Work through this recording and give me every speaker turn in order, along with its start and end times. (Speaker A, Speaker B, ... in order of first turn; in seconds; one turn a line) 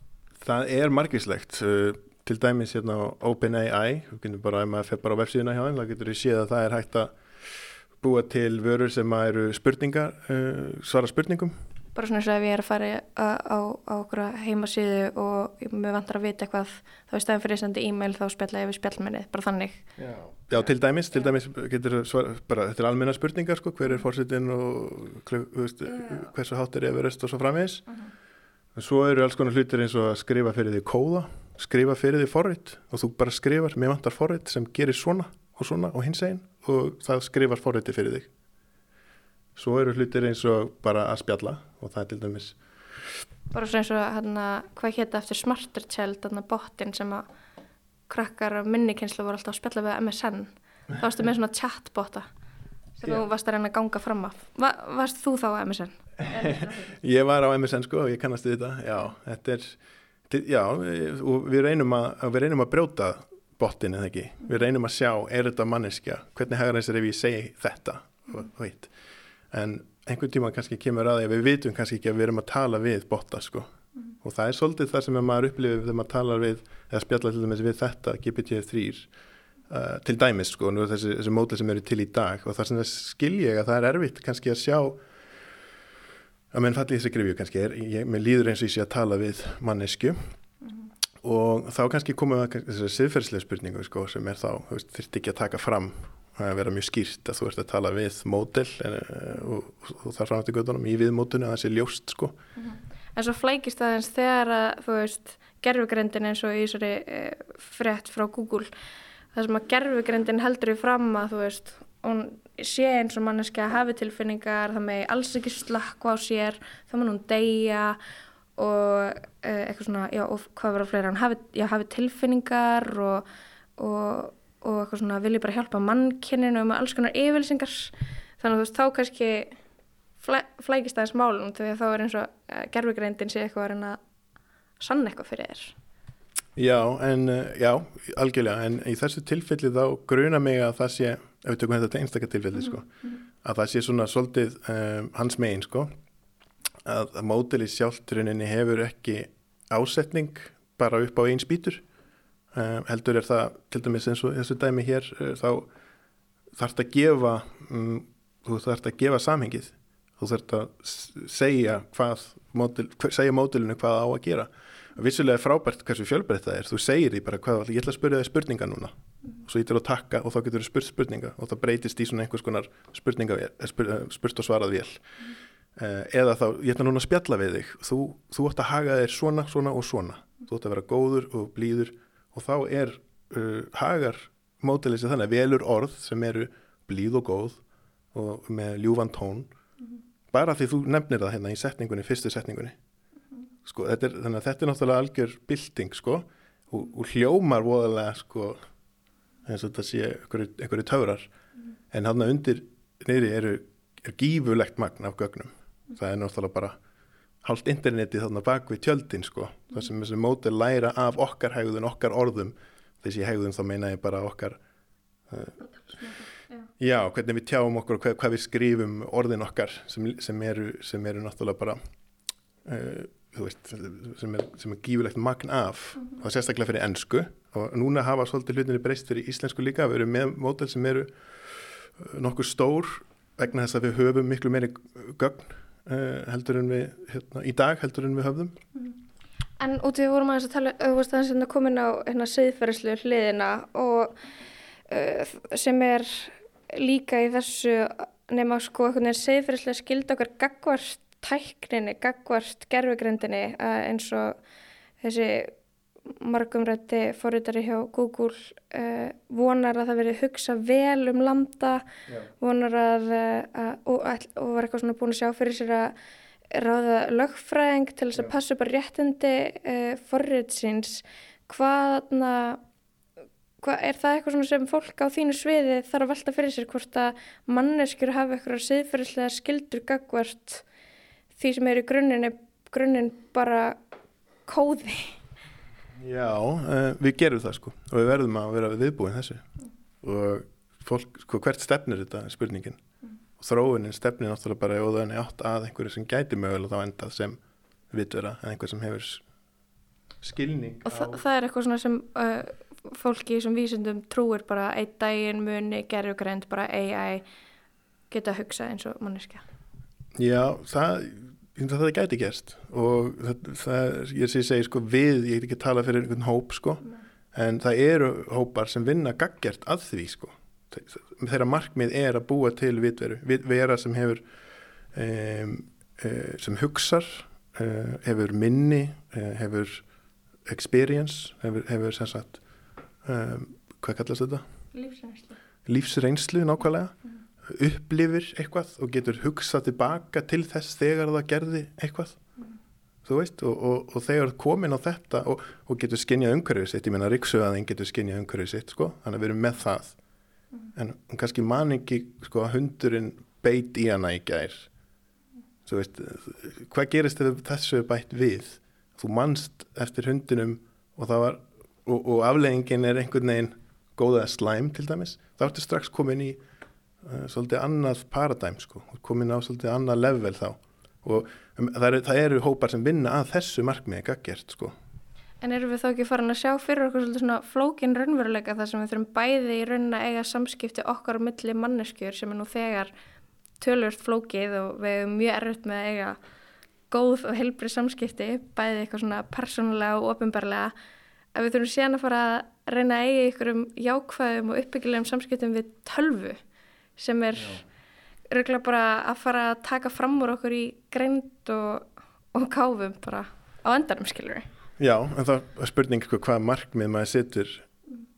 Speaker A: 0.4-7.2
Speaker A: 8.0-11.6
Speaker B: 11.9-19.8
Speaker A: 20.0-27.9
Speaker A: 28.8-38.3
Speaker A: 39.6-42.6
Speaker B: 43.5-47.3
Speaker B: 48.1-52.3
Speaker B: 53.0-56.8
Speaker A: 56.3-59.8
Speaker A: 60.3-68.9
Speaker A: 69.5-79.1
Speaker A: 79.7-85.0
Speaker A: 86.5-90.3
Speaker A: 91.2-102.4
Speaker B: 102.6-108.7
Speaker B: 109.3-118.0
Speaker B: 118.6-123.2
Speaker B: 123.8-129.6
Speaker B: 130.2-134.0
Speaker B: 134.8-135.8
Speaker A: 136.6-145.9
Speaker A: 146.8-151.8
Speaker A: 152.5-155.7
Speaker A: 156.5-175.0
Speaker A: 175.8-187.6
Speaker A: 188.1-189.5
Speaker A: 190.3-192.8
Speaker A: 193.6-198.7
Speaker A: 199.4-201.3
Speaker A: 201.9-206.8
Speaker A: 207.4-214.6
Speaker A: 215.3-215.6
Speaker A: 216.8-221.8
Speaker A: 222.7-238.6
Speaker B: 239.6-244.2
Speaker B: 244.9-254.4
Speaker B: 255.0-255.5
Speaker B: 256.1-261.9
Speaker B: 262.4-265.9
Speaker B: 266.5-272.6
Speaker B: 273.6-280.6
Speaker B: 281.4-283.8
Speaker B: 284.5-285.1
Speaker A: 285.9-289.5
Speaker A: 290.0-292.8
Speaker A: 293.4-297.4
Speaker A: 297.9-299.2
Speaker A: 300.2-301.2
Speaker B: 300.9-307.2
Speaker B: 308.1-309.4
Speaker A: 310.1-324.2
Speaker A: 324.9-329.8
Speaker A: 330.4-332.4
Speaker A: 333.0-334.4
Speaker B: 334.7-335.4
Speaker A: 335.6-342.2
Speaker A: 343.1-350.0
Speaker A: 350.7-354.7
Speaker A: 355.7-366.4
Speaker A: 367.0-374.8
Speaker B: 375.4-382.9
Speaker B: 383.6-386.2
Speaker B: 386.9-390.7
Speaker B: 391.4-396.4
Speaker B: 397.0-397.6
Speaker B: 398.3-404.5
Speaker A: 404.8-407.7